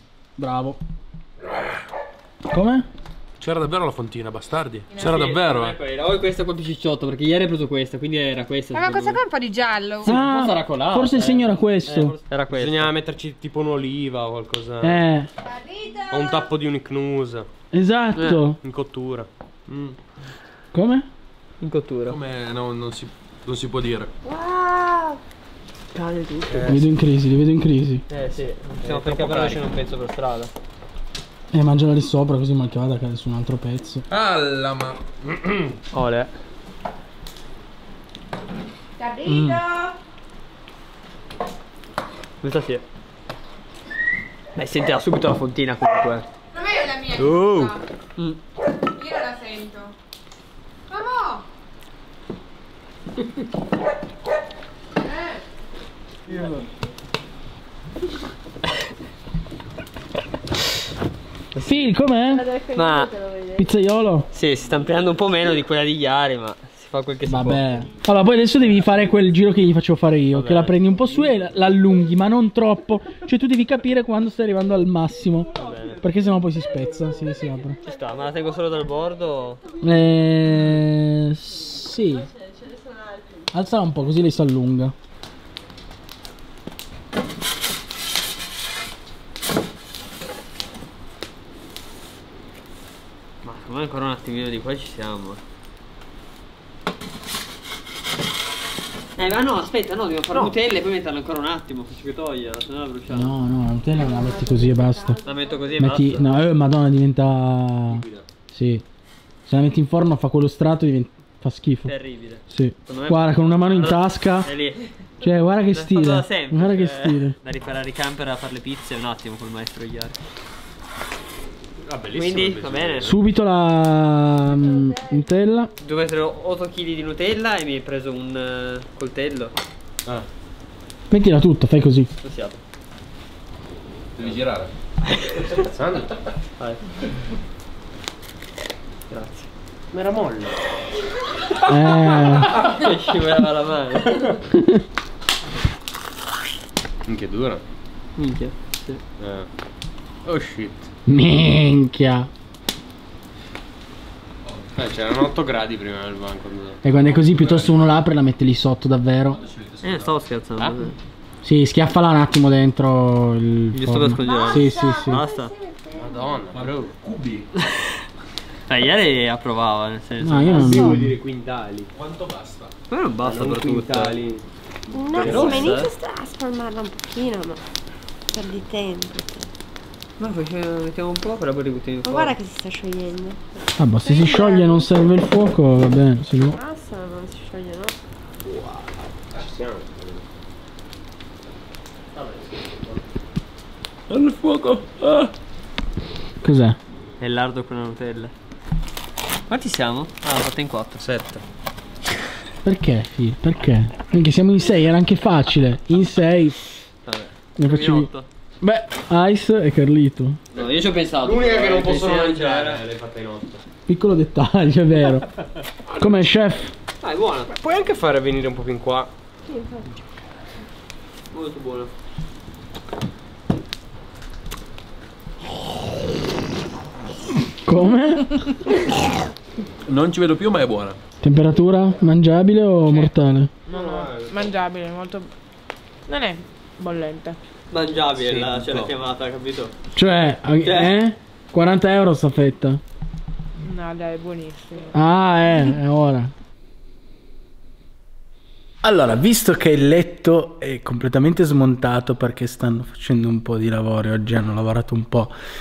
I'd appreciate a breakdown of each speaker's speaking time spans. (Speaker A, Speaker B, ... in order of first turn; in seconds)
Speaker A: 0.4-0.8, 2.5-2.9, 10.0-12.2, 14.8-15.3, 17.7-18.6, 20.7-21.1, 26.6-28.0, 31.5-34.0, 61.6-62.5, 63.5-64.3, 67.3-77.8, 79.8-82.3, 83.5-84.9, 103.1-105.2, 105.8-108.8, 109.5-111.9, 112.5-114.5, 115.2-117.4, 123.0-125.7, 131.1-132.1, 141.7-142.6, 144.5-144.8, 151.1-152.3, 156.8-159.4, 161.4-165.2, 170.2-171.2, 183.8-186.6, 196.4-196.8, 202.6-206.6, 207.6-210.4, 213.9-215.3, 215.9-216.7, 227.5-228.4, 231.2-233.5, 239.9-242.8, 244.9-246.3, 248.8-255.3
Speaker B: 3.4-5.8, 22.1-24.1, 34.1-35.4, 134.2-134.7, 154.4-154.8, 157.0-158.0, 159.3-160.1, 166.5-167.5, 171.9-172.7, 194.1-195.3, 229.8-231.0
Speaker C: 4.9-5.3, 8.7-10.2, 15.4-16.4, 39.0-39.9, 46.5-47.8, 48.7-50.0, 50.9-51.5, 55.0-55.4, 233.7-235.3, 236.1-237.4, 243.6-244.9
Speaker D: 5.1-9.2, 10.0-12.9, 21.6-22.2, 25.9-26.8, 28.1-30.5, 35.9-36.3, 39.3-39.6, 42.4-42.9, 44.6-46.2, 47.2-47.6, 62.7-63.2, 64.3-67.6, 70.3-70.8, 75.6-76.0, 77.8-79.6, 93.4-95.4, 99.2-103.3, 105.2-106.3, 111.9-114.9, 115.7-120.2, 122.1-123.2, 125.8-129.6, 132.2-132.6, 135.3-135.6, 139.1-139.5, 142.2-144.4, 148.2-149.0, 159.8-161.0, 163.7-165.6, 167.6-168.0, 168.7-170.9, 172.9-174.2, 175.2-175.9, 180.2-182.4, 197.2-198.3, 199.5-201.0, 207.1-208.3, 210.5-212.8, 217.0-217.5, 221.3-221.9, 237.7-239.7, 240.6-240.9
Speaker E: 12.5-15.0, 16.1-17.5, 18.6-19.3, 26.5-26.9, 28.4-29.6, 107.9-108.2, 121.8-123.2, 135.6-136.1, 139.9-140.6, 147.1-147.6, 149.2-149.5, 150.2-150.9, 154.8-156.8, 165.9-166.9, 170.4-171.9, 173.2-174.4, 174.9-175.9, 189.3-190.3, 201.0-201.4, 210.6-213.6, 217.5-219.1, 233.7-234.6, 238.2-238.9
Speaker F: 24.3-25.2, 62.4-63.6, 164.4-166.3, 174.9-177.6, 178.3-179.5, 182.1-184.9, 186.5-188.0, 219.5-219.8